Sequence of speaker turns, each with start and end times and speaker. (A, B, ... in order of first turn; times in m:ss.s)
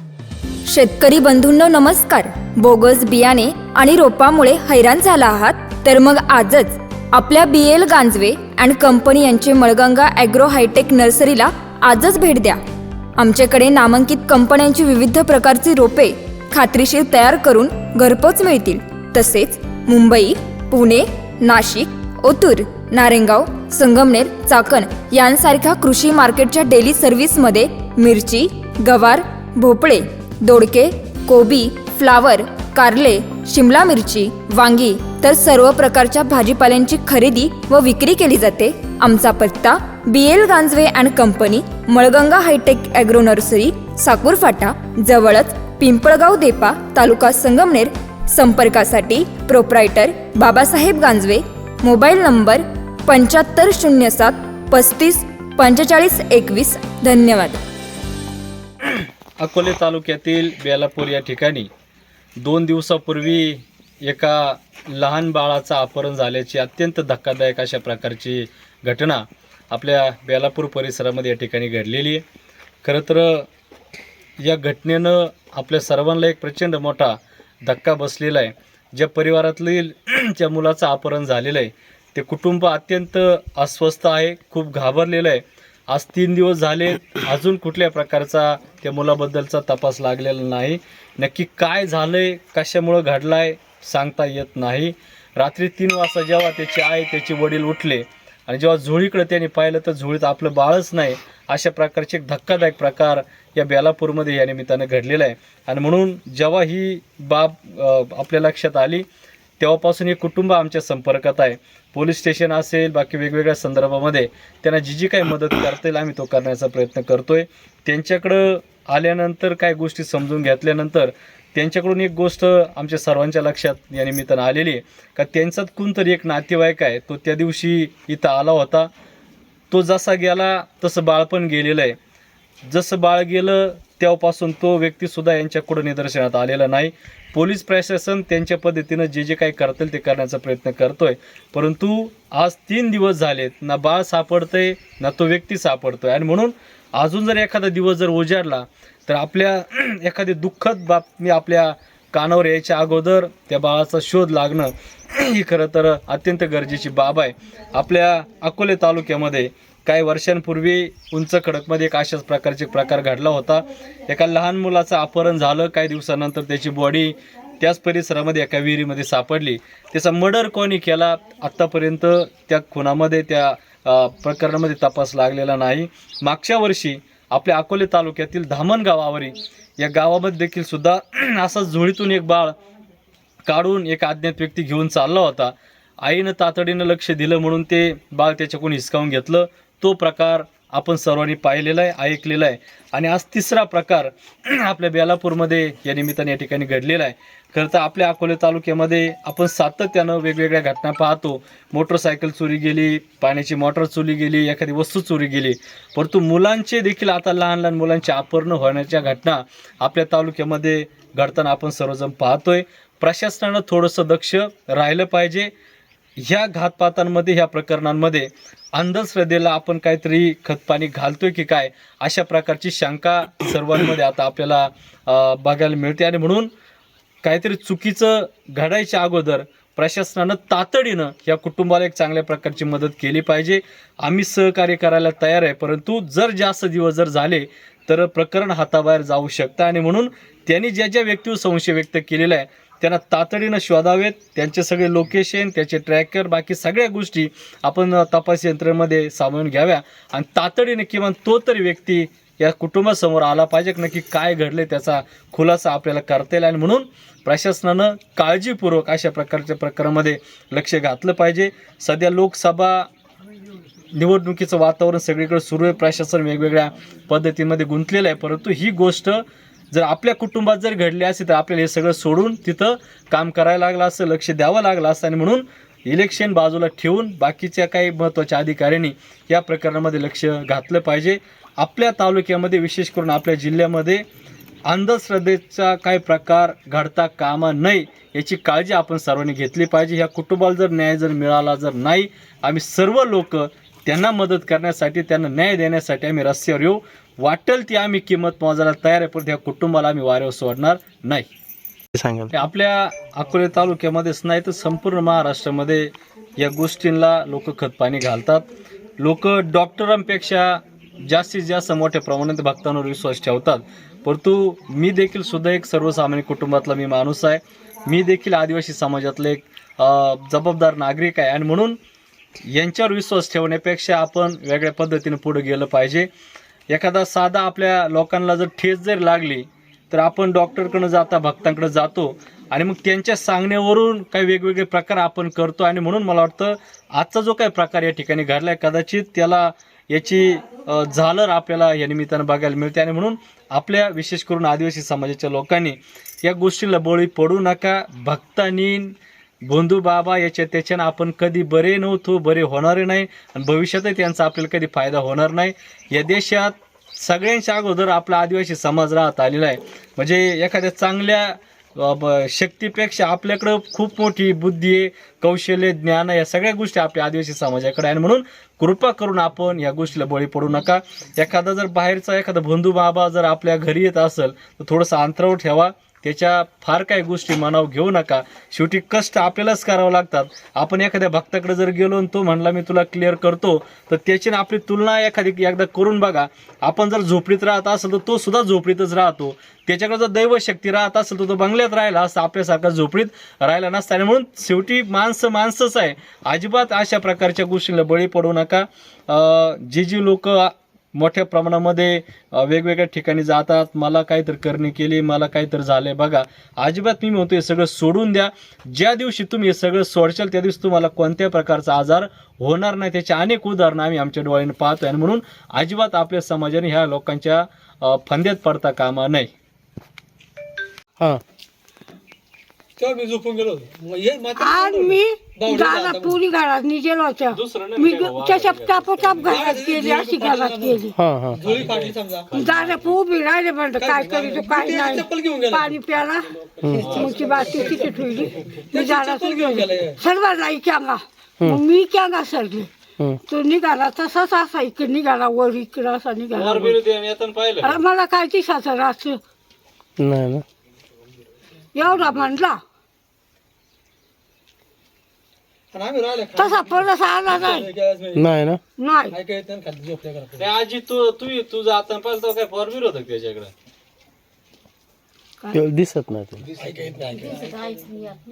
0:00.7-0:12.6 A
0:13.2-0:57.6 A
0:58.8-1:01.7 B
1:02.4-1:12.2 B
1:12.8-1:13.5 B
1:14.4-1:49.0 B
1:49.6-2:08.9 B
2:09.7-2:12.0 B
2:12.7-3:02.6 B
3:03.4-3:35.5 B
3:36.2-3:46.5 B
3:47.2-4:22.9 B
4:23.9-4:44.0 B
4:44.7-5:01.3 B
5:02.3-5:08.5 B
5:09.0-5:21.8 B
5:22.5-5:26.1 B
5:26.7-6:59.3 B
7:02.8-7:06.3 C
7:04.4-7:11.0 D
7:07.3-7:09.4 B
7:09.2-7:12.4 C
7:11.0-7:11.4 E
7:11.4-7:13.0 B
7:12.4-7:16.2 D
7:13.7-7:20.0 C
7:16.7-7:17.2 B
7:17.0-7:22.7 D
7:23.3-7:26.8 D
7:26.3-7:27.8 B
7:27.6-7:29.2 D
7:30.0-7:30.4 E
7:31.8-7:32.6 D
7:35.7-7:38.4 C
7:36.4-7:37.7 D
7:38.2-7:38.6 E
7:38.8-7:39.2 D
7:39.1-7:40.4 C
7:40.4-7:43.5 B
7:45.5-7:46.5 E
7:46.4-7:47.8 C